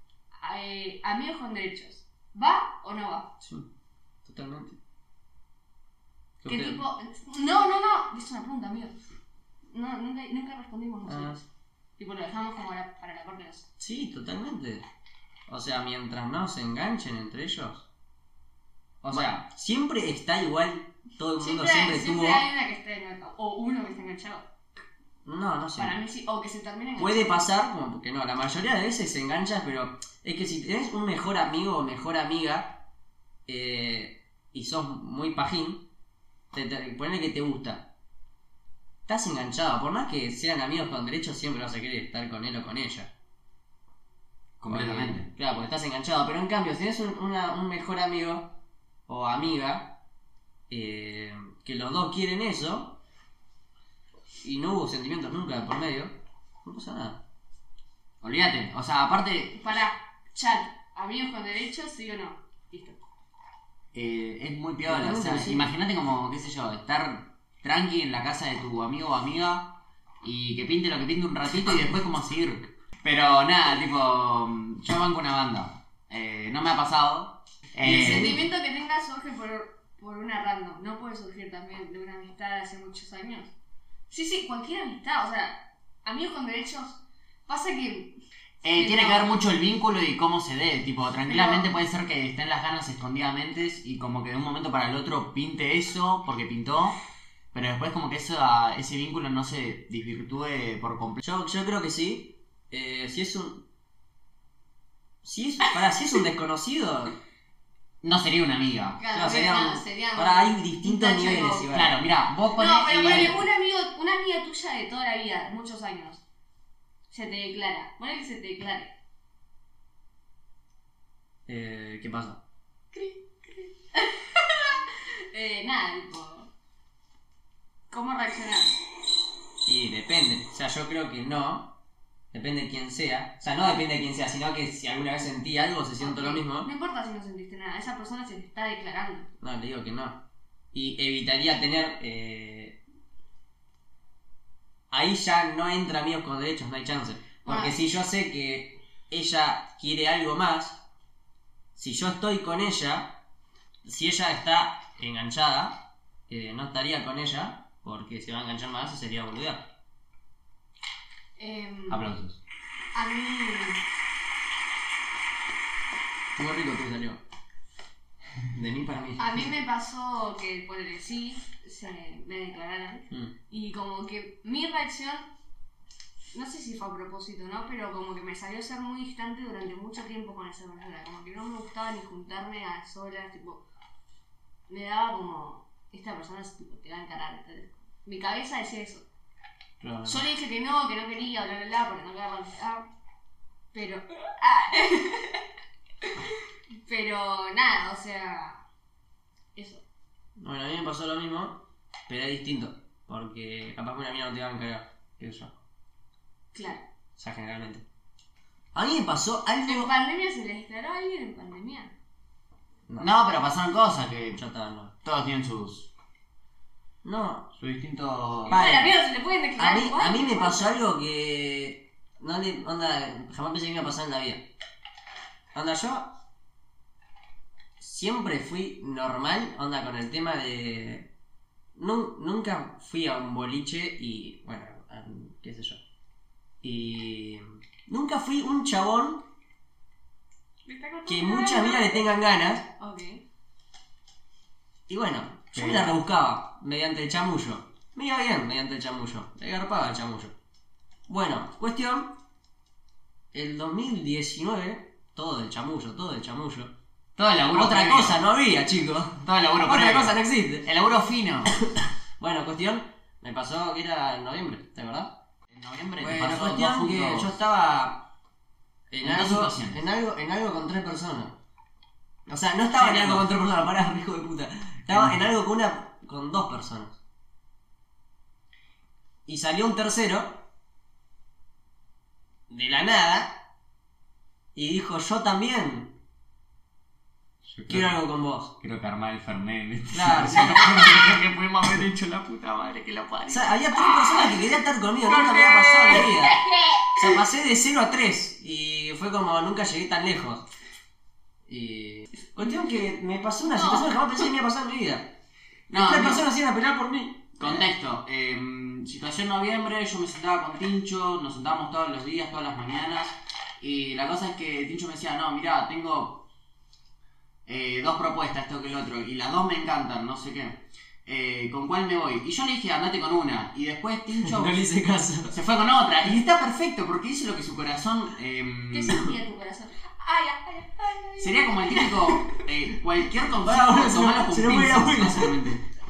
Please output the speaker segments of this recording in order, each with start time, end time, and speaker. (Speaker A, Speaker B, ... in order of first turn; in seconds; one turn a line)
Speaker A: 0.4-3.4
Speaker B: 3.4-3.7
Speaker B: 4.2-4.8
Speaker B: 6.4-6.8
Speaker A: 6.5-9.0
Speaker A: 9.7-11.4
Speaker B: 11.1-11.4
Speaker A: 12.0-13.7
Speaker B: 13.8-14.8
Speaker B: 15.5-17.9
Speaker C: 19.0-19.4
Speaker B: 19.1-22.4
Speaker A: 21.4-24.5
Speaker B: 25.3-26.0
Speaker A: 25.8-27.5
Speaker B: 27.0-32.8
Speaker B: 33.5-35.9
Speaker B: 36.5-37.9
Speaker B: 39.1-43.1
Speaker C: 44.6-45.3
Speaker B: 44.7-48.5
Speaker B: 49.1-50.0
Speaker B: 50.7-53.0
Speaker B: 54.4-57.2
Speaker C: 58.2-59.8
Speaker A: 59.5-63.0
Speaker C: 63.9-78.5
Speaker B: 64.8-65.7
Speaker A: 77.8-83.5
Speaker B: 77.8-78.4
Speaker A: 84.1-88.2
Speaker C: 88.6-97.0
Speaker A: 88.7-89.5
Speaker A: 91.3-91.7
Speaker C: 97.5-101.2
Speaker B: 101.2-103.7
Speaker B: 105.2-107.2
Speaker C: 108.0-109.0
Speaker A: 109.0-111.8
Speaker B: 109.1-111.9
Speaker C: 111.7-113.4
Speaker A: 112.5-116.2
Speaker A: 117.1-118.9
Speaker B: 121.5-122.4
Speaker A: 122.9-126.5
Speaker A: 127.9-128.8
Speaker B: 129.7-131.8
Speaker B: 132.3-136.7
Speaker A: 136.0-139.3
Speaker B: 139.4-140.2
Speaker B: 140.7-142.8
Speaker B: 144.9-150.8
Speaker A: 147.4-147.8
Speaker B: 151.8-153.2
Speaker B: 153.8-159.7
Speaker A: 161.4-162.1
Speaker C: 161.9-162.4
Speaker A: 162.9-163.8
Speaker B: 166.4-167.2
Speaker B: 168.5-169.4
Speaker A: 169.2-175.3
Speaker A: 176.3-183.6
Speaker A: 184.7-189.1
Speaker B: 189.8-190.2
Speaker A: 190.1-192.9
Speaker A: 193.7-195.4
Speaker A: 196.0-196.3
Speaker A: 196.8-198.6
Speaker A: 199.6-199.8
Speaker B: 200.4-205.6
Speaker A: 206.5-206.8
Speaker B: 207.2-207.8
Speaker B: 208.7-209.9
Speaker A: 209.7-211.9
Speaker C: 213.0-214.4
Speaker B: 214.3-214.9
Speaker C: 215.0-215.9
Speaker B: 217.0-217.5
Speaker C: 217.6-218.6
Speaker A: 218.5-220.7
Speaker B: 218.5-218.9
Speaker B: 219.6-224.5
Speaker B: 225.5-226.2
Speaker B: 227.8-231.1
Speaker B: 231.8-235.8
Speaker B: 236.6-239.3
Speaker A: 240.7-242.1
Speaker B: 241.1-242.7
Speaker A: 242.8-243.2
Speaker B: 244.9-250.3
Speaker C: 245.6-246.0
Speaker B: 251.1-252.2
Speaker B: 253.3-256.7
Speaker C: 257.2-258.2
Speaker B: 257.5-260.7
Speaker C: 259.2-261.6
Speaker B: 261.7-265.2
Speaker C: 265.5-267.3
Speaker B: 266.0-268.1
Speaker B: 268.9-271.4
Speaker C: 269.0-269.8
Speaker B: 272.3-277.0
Speaker C: 272.8-273.3
Speaker C: 274.9-275.2
Speaker B: 279.3-280.4
Speaker B: 282.5-283.4
Speaker B: 284.6-286.0
Speaker C: 287.5-288.0
Speaker B: 287.7-288.5
Speaker C: 288.6-293.6
Speaker B: 289.9-291.0
Speaker B: 293.3-296.4
Speaker C: 295.1-296.1
Speaker A: 295.9-296.9
Speaker B: 296.9-300.5
Speaker B: 301.5-305.2
Speaker A: 303.5-304.1
Speaker C: 305.7-306.3
Speaker B: 305.7-307.7
Speaker C: 307.4-316.3
Speaker C: 317.5-324.6
Speaker B: 324.2-325.4
Speaker C: 325.3-329.1
Speaker A: 328.7-332.4
Speaker C: 331.2-335.6
Speaker B: 333.4-335.4